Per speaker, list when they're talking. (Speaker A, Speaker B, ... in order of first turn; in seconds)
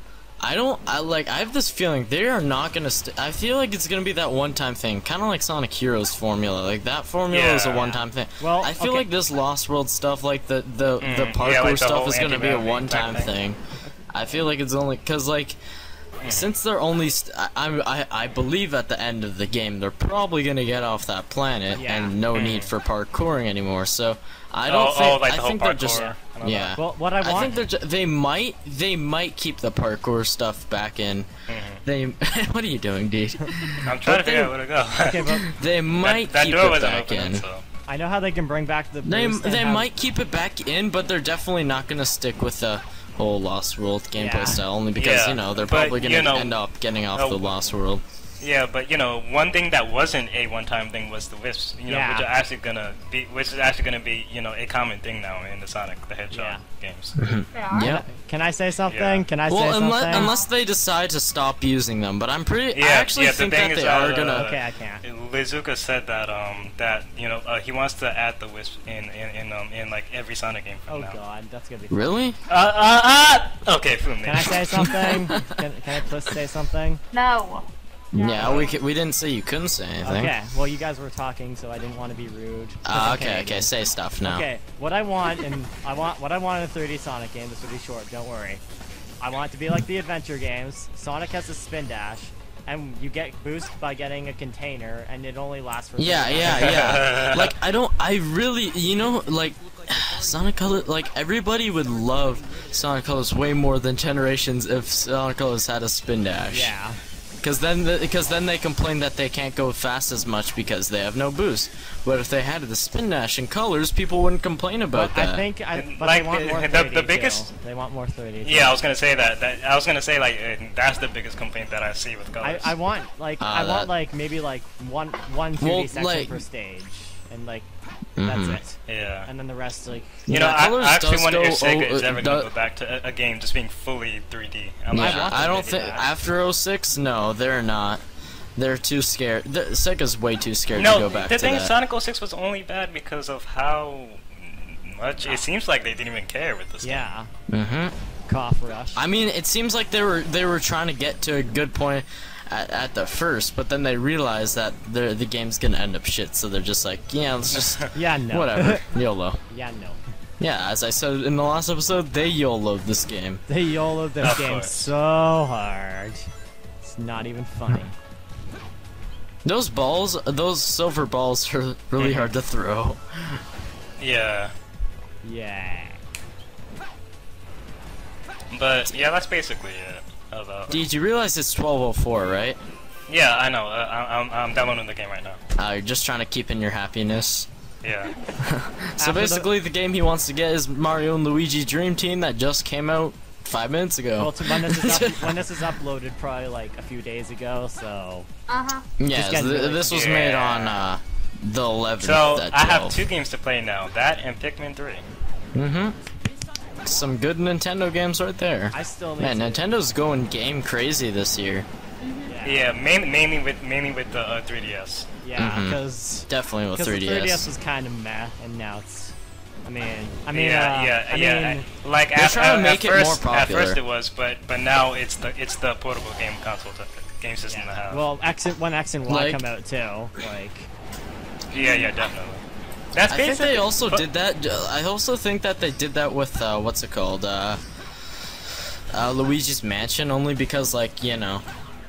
Speaker A: 0.4-13.6, 14.1-15.6, 16.2-31.3, 31.8-34.5, 35.4-37.4, 39.0-48.0, 57.2-58.0, 59.5-64.5, 71.9-72.4, 74.6-75.5, 78.1-80.3, 82.8-84.5, 96.0-106.7, 107.4-115.4, 123.4-123.9, 125.6-126.4, 128.2-128.6, 130.3-132.5, 134.9-138.0, 138.6-141.8, 147.5-147.9, 148.9-159.4, 160.4-163.4, 169.4-173.4, 180.7-182.6, 185.5-187.5, 188.4-195.4, 199.0-203.1, 205.5-206.0, 206.8-211.7, 215.3-217.4, 222.1-223.8, 229.1-229.4, 233.1-237.6, 238.9-241.4
Speaker B: 7.3-8.0, 11.0-13.3, 16.2-16.5, 22.3-22.7, 24.6-26.8, 27.3-27.6, 31.5-31.8, 33.8-35.4, 36.0-37.6, 45.0-46.6, 47.1-47.6, 48.4-57.1, 58.9-59.3, 62.7-71.2, 72.5-74.8, 78.4-78.7, 96.4-97.5, 115.7-117.5, 118.4-122.7, 128.9-129.3, 130.3-136.1, 140.7-147.1, 157.5-157.9, 164.2-164.9, 172.0-172.3, 174.0-174.5, 178.5-180.8, 183.1-185.4, 187.8-188.2, 199.8-200.8, 202.0-205.1, 212.4-215.1, 220.3-228.0, 231.5-234.0
Speaker C: 8.4-9.1, 21.7-22.2, 26.8-27.6, 35.0-35.5, 37.9-39.9, 44.1-44.6, 51.9-52.3, 56.3-56.6, 57.7-60.4, 64.3-65.0, 70.9-72.1, 74.2-77.0, 80.0-88.6, 89.2-96.8, 106.5-107.0, 114.9-118.7, 122.4-127.7, 128.2-130.2, 134.9-136.1, 146.8-147.3, 148.3-149.0, 157.9-158.9, 159.5-160.0, 163.5-166.3, 166.8-167.9, 175.2-176.0, 189.0-189.5, 194.2-198.3, 199.1-200.0, 208.7-209.7, 212.3-212.7, 215.2-221.7, 227.5-230.7
Speaker D: 57.5-57.9, 60.1-60.5, 77.1-78.8, 198.5-198.8, 212.0-212.3, 231.5-231.9